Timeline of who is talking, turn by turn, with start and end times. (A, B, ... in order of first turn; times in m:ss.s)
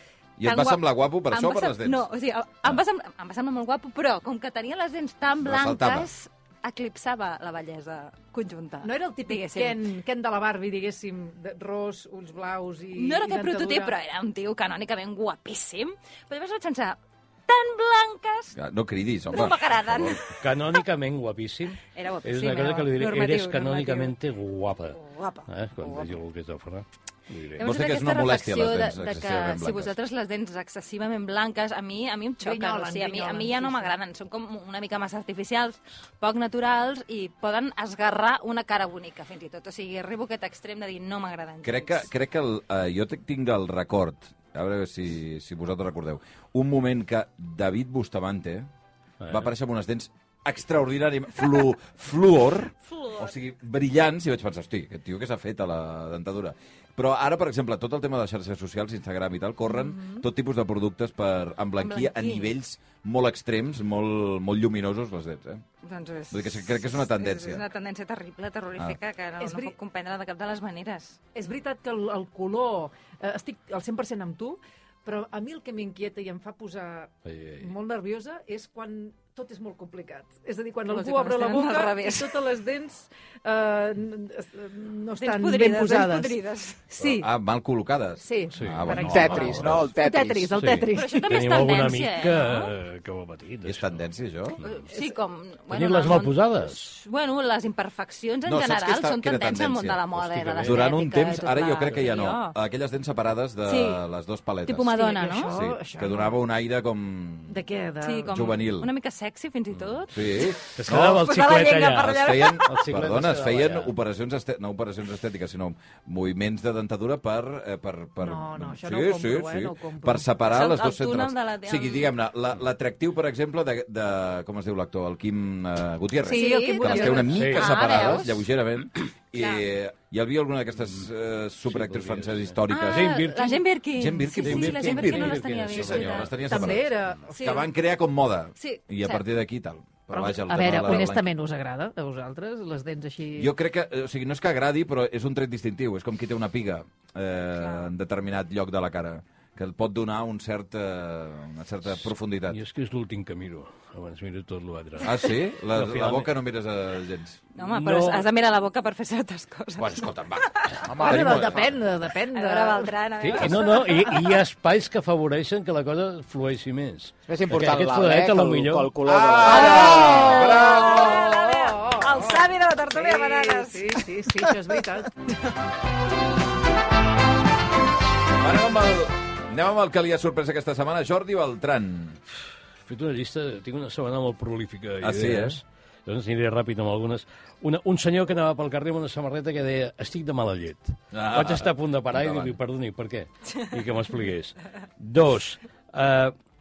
0:00.4-0:02.0 A
0:00.4-0:09.8 B
0:05.4-0:06.1 A
0:08.8-0:13.9 C
0:13.0-0:18.6 B
0:18.6-0:20.2 A
0:19.3-0:20.8 B
0:20.4-0:27.6 D
0:21.9-0:24.1 B
0:24.9-0:26.1 B
0:27.6-0:42.1 B
0:27.6-0:30.0 A
0:32.4-0:33.9 C
0:41.6-0:48.7 A
0:49.2-0:49.5 D
0:49.3-1:05.6 A
0:59.7-1:00.2 B
1:01.8-1:02.5 B
1:05.8-1:11.2 B
1:06.3-1:07.6 A
1:09.4-1:09.8 C
1:11.3-1:26.3 C
1:17.3-1:17.7 D
1:20.9-1:22.4 B
1:25.2-1:26.8 B
1:26.9-1:27.3 C
1:27.0-1:29.8 A
1:28.2-1:31.4 C
1:28.6-1:29.9 D
1:29.0-1:30.5 E
1:30.6-1:34.0 D
1:31.0-1:32.8 B
1:33.6-1:34.6 A
1:34.6-1:42.6 B
1:34.9-1:35.2 C
1:35.7-1:37.0 D
1:38.4-1:40.0 A
1:40.2-1:40.9 D
1:40.6-1:44.9 A
1:43.7-1:44.0 B
1:44.6-1:45.5 B
1:44.9-1:46.4 C
1:45.5-1:47.6 A
1:47.5-1:48.3 C
1:48.0-1:52.7 B
1:48.3-1:48.9 A
1:50.1-1:51.2 A
1:50.8-1:53.9 D
1:52.0-2:13.2 A
1:58.2-2:00.3 C
2:00.5-2:02.2 B
2:06.2-2:07.3 C
2:06.3-2:08.5 B
2:07.3-2:07.9 D
2:09.4-2:09.7 B
2:11.7-2:13.6 D
2:12.7-2:16.4 B
2:14.0-2:21.2 A
2:14.4-2:16.7 D
2:16.5-2:17.6 C
2:18.6-2:19.2 B
2:20.1-2:23.5 C
2:23.4-2:32.6 A
2:27.6-2:27.9 B
2:32.5-2:36.3 D
2:35.0-2:37.4 A
2:37.6-2:41.3 B
2:37.6-2:38.2 D
2:39.8-2:41.8 A
2:40.9-2:41.2 E
2:41.0-2:42.9 C
2:42.3-2:44.2 B
2:43.2-2:48.9 D
2:47.3-2:51.1 E
2:49.1-2:51.1 A
2:49.4-2:54.1 B
2:49.5-2:55.1 C
2:58.4-3:02.2 A
3:02.8-3:16.3 D
3:05.0-3:05.6 A
3:11.1-3:12.6 A